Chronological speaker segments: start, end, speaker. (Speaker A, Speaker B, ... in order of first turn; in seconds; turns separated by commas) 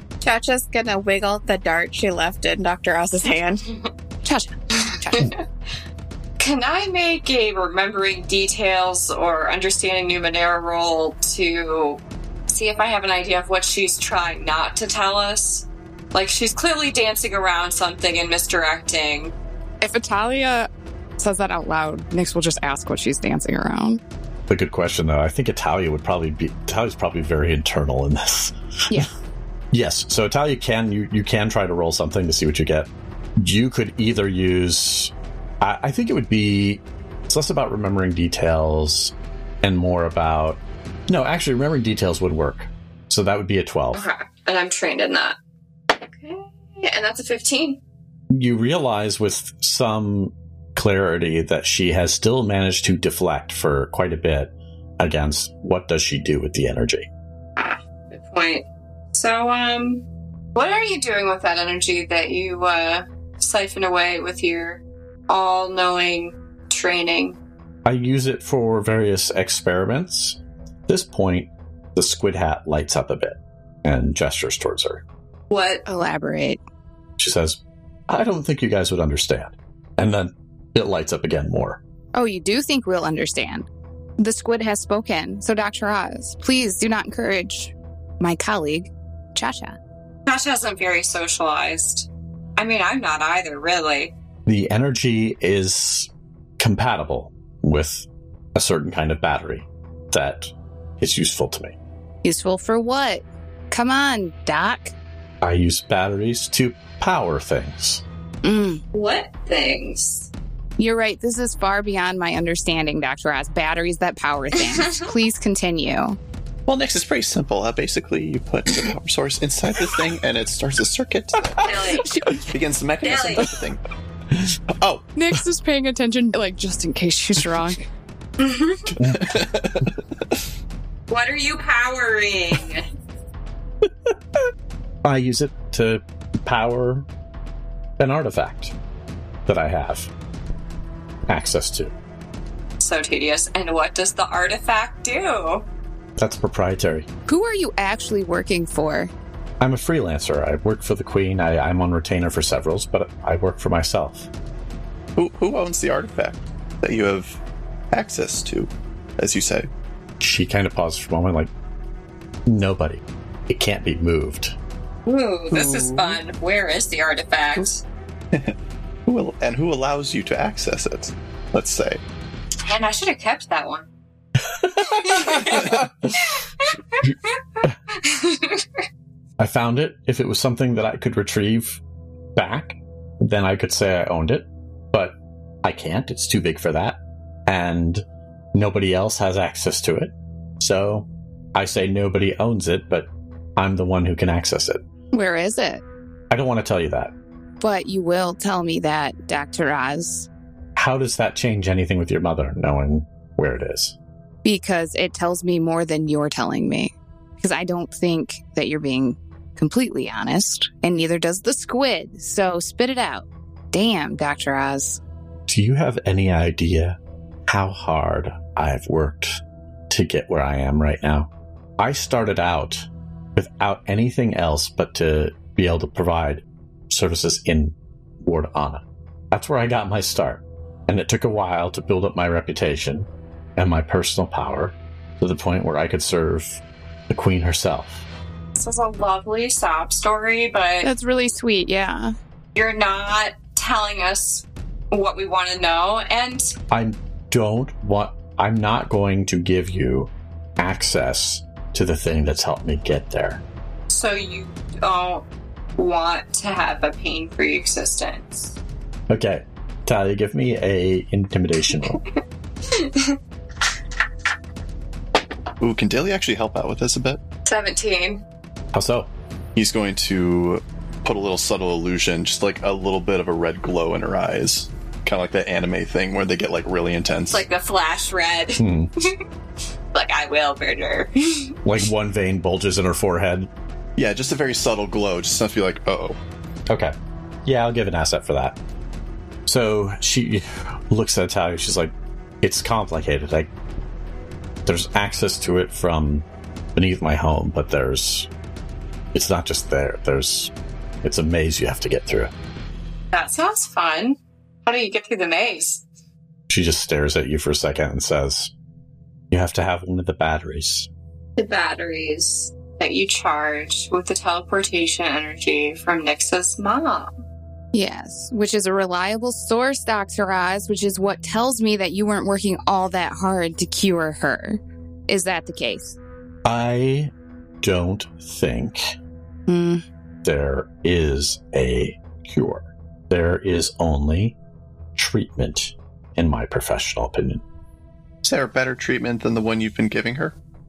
Speaker A: 0.2-3.7, Speaker B: 4.2-5.3, Speaker C: 4.9-5.4, Speaker C: 6.4-19.3, Speaker B: 19.8-24.0, Speaker D: 24.5-29.1, Speaker D: 29.7-44.1, Speaker C: 43.9-45.4, Speaker C: 45.9-47.8, Speaker D: 48.3-57.1, Speaker C: 57.6-60.0, Speaker C: 60.5-67.4, Speaker D: 67.8-75.0, Speaker C: 75.5-75.8, Speaker B: 75.9-76.6, Speaker D: 77.2-81.8, Speaker B: 82.1-83.7, Speaker B: 84.2-89.8, Speaker C: 90.3-94.1, Speaker D: 94.5-101.8, Speaker B: 102.2-104.9, Speaker D: 105.4-108.0, Speaker B: 108.4-108.8, Speaker C: 108.9-110.3, Speaker B: 110.8-116.2, Speaker E: 116.7-123.8, Speaker C: 121.6-122.1, Speaker C: 123.0-123.6, Speaker E: 124.8-125.1, Speaker B: 125.2-127.8, Speaker C: 128.4-128.9, Speaker E: 128.9-130.3, Speaker D: 129.0-129.3, Speaker C: 131.1-132.9, Speaker D: 135.0-137.1, Speaker D: 138.0-138.7, Speaker D: 139.5-140.1, Speaker D: 141.3-141.9, Speaker C: 142.8-145.7, Speaker D: 146.2-147.1, Speaker B: 147.3-149.1, Speaker D: 149.6-154.3, Speaker E: 155.2-157.4, Speaker E: 157.9-159.7, Speaker D: 160.2-161.5, Speaker D: 162.5-164.6, Speaker C: 165.1-167.8, Speaker E: 165.5-166.2, Speaker E: 169.1-172.0, Speaker C: 172.6-173.9, Speaker E: 175.0-175.9, Speaker C: 175.0-177.4, Speaker C: 177.9-178.7, Speaker D: 179.4-181.8, Speaker D: 182.4-194.8, Speaker B: 195.1-195.8, Speaker D: 196.3-197.1, Speaker B: 197.6-200.3, Speaker D: 200.8-204.0, Speaker B: 204.4-215.0, Speaker D: 215.5-238.1, Speaker C: 238.6-240.9, Speaker B: 240.8-242.1, Speaker C: 242.6-246.5, Speaker D: 246.7-253.4, Speaker C: 253.9-255.3, Speaker C: 255.8-258.5, Speaker D: 259.1-262.0, Speaker C: 262.7-263.2, Speaker E: 265.6-267.2, Speaker C: 267.4-268.2, Speaker D: 268.7-269.1, Speaker E: 269.6-277.4, Speaker C: 277.3-279.1, Speaker D: 278.6-278.9, Speaker C: 279.9-281.6, Speaker D: 281.6-283.5, Speaker E: 284.0-286.2, Speaker D: 286.7-286.9, Speaker D: 287.4-288.6, Speaker D: 289.5-293.5, Speaker D: 294.7-298.3, Speaker D: 299.1-300.5, Speaker D: 301.0-302.3, Speaker C: 303.1-305.8, Speaker D: 306.5-308.5, Speaker D: 309.3-310.9, Speaker C: 311.4-317.1, Speaker B: 317.7-326.0, Speaker D: 326.4-328.9, Speaker B: 329.5-329.8, Speaker D: 330.2-334.4, Speaker D: 334.9-337.4, Speaker E: 338.2-340.4